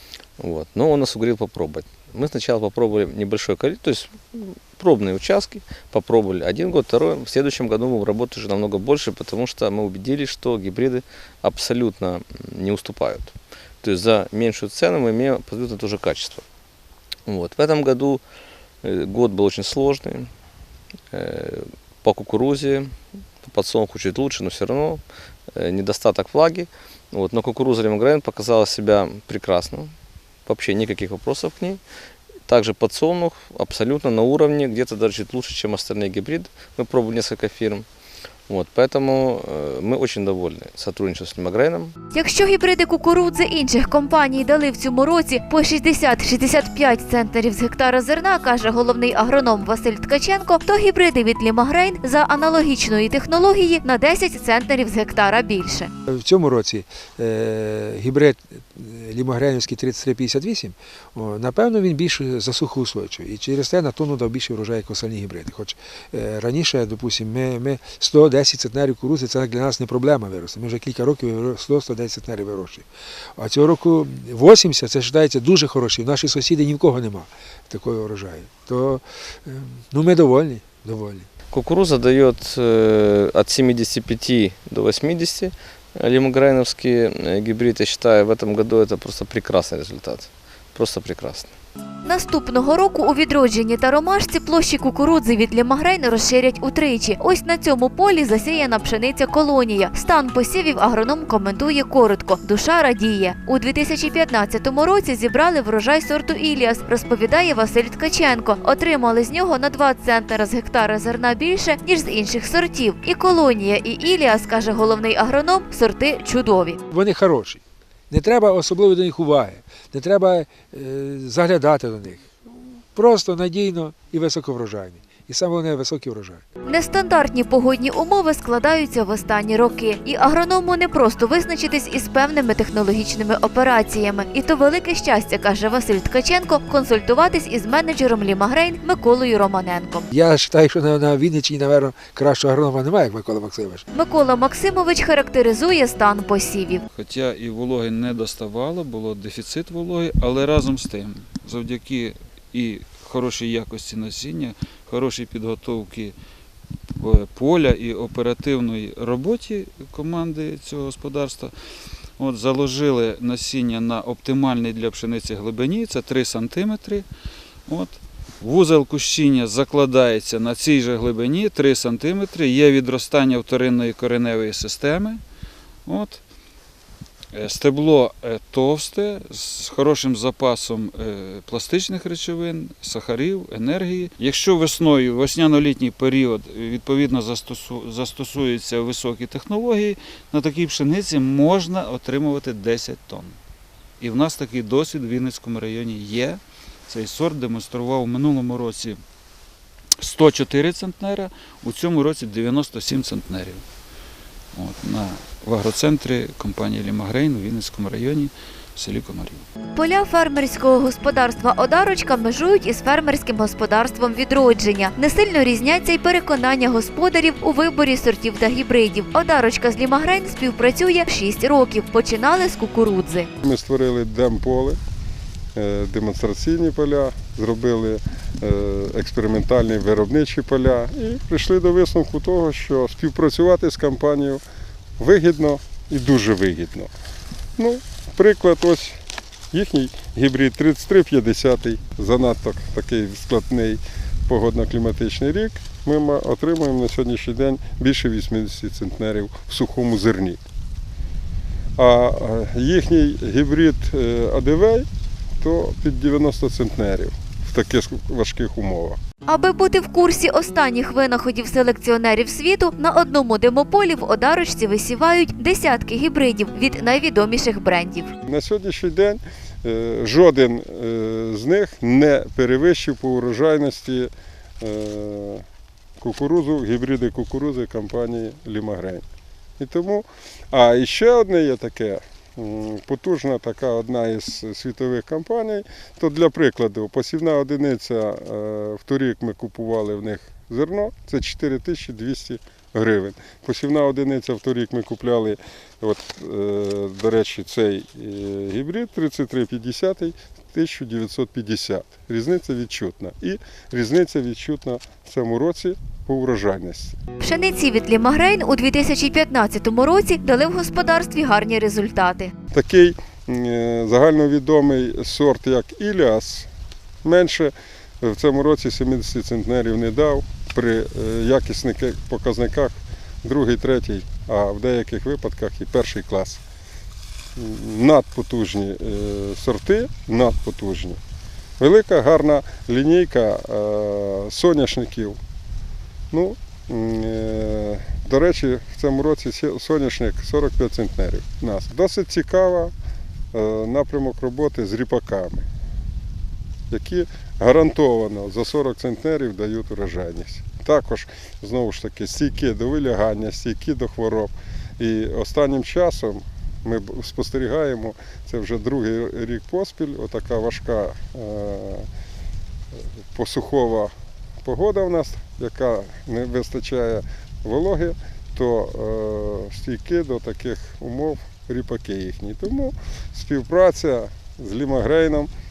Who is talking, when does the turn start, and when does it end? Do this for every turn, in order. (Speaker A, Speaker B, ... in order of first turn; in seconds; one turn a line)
Speaker A: 0.4-16.4
Speaker A: 17.2-18.2
Speaker A: 18.8-20.3
Speaker A: 21.1-29.9
Speaker A: 30.4-31.8
Speaker A: 32.4-37.9
Speaker A: 38.5-41.9
Speaker B: 42.1-55.9
Speaker C: 56.1-81.3
Speaker A: 81.5-91.5
Speaker B: 92.0-116.8
Speaker C: 116.9-122.3
Speaker C: 122.9-126.4
Speaker B: 126.7-140.1
Speaker C: 140.1-143.8
Speaker B: 143.9-146.8
Speaker D: 146.9-156.1
Speaker D: 157.0-161.5
Speaker D: 162.2-167.1
Speaker D: 167.7-175.2
Speaker D: 175.8-176.2
Speaker D: 177.3-193.4
Speaker D: 194.0-199.0
Speaker D: 200.0-203.6
Speaker D: 204.5-209.4
Speaker B: 209.7-223.3
Speaker E: 223.4-224.8
Speaker E: 225.5-234.4
Speaker E: 235.0-236.9
Speaker E: 237.6-239.0
Speaker E: 239.5-250.4
Speaker E: 251.8-254.9
Speaker E: 255.4-259.0
Speaker B: 259.2-268.1
Speaker E: 268.2-274.1
Speaker E: 274.6-275.4
Speaker E: 276.0-279.0
Speaker E: 279.6-307.0
Speaker B: 307.2-312.3
Speaker E: 312.5-316.5
Speaker E: 317.0-326.4
Speaker E: 327.4-331.0
Speaker E: 331.6-335.2
Speaker E: 336.1-342.7
Speaker E: 343.3-345.5
Speaker E: 346.7-361.9
Speaker E: 363.1-363.9
Speaker E: 364.4-375.3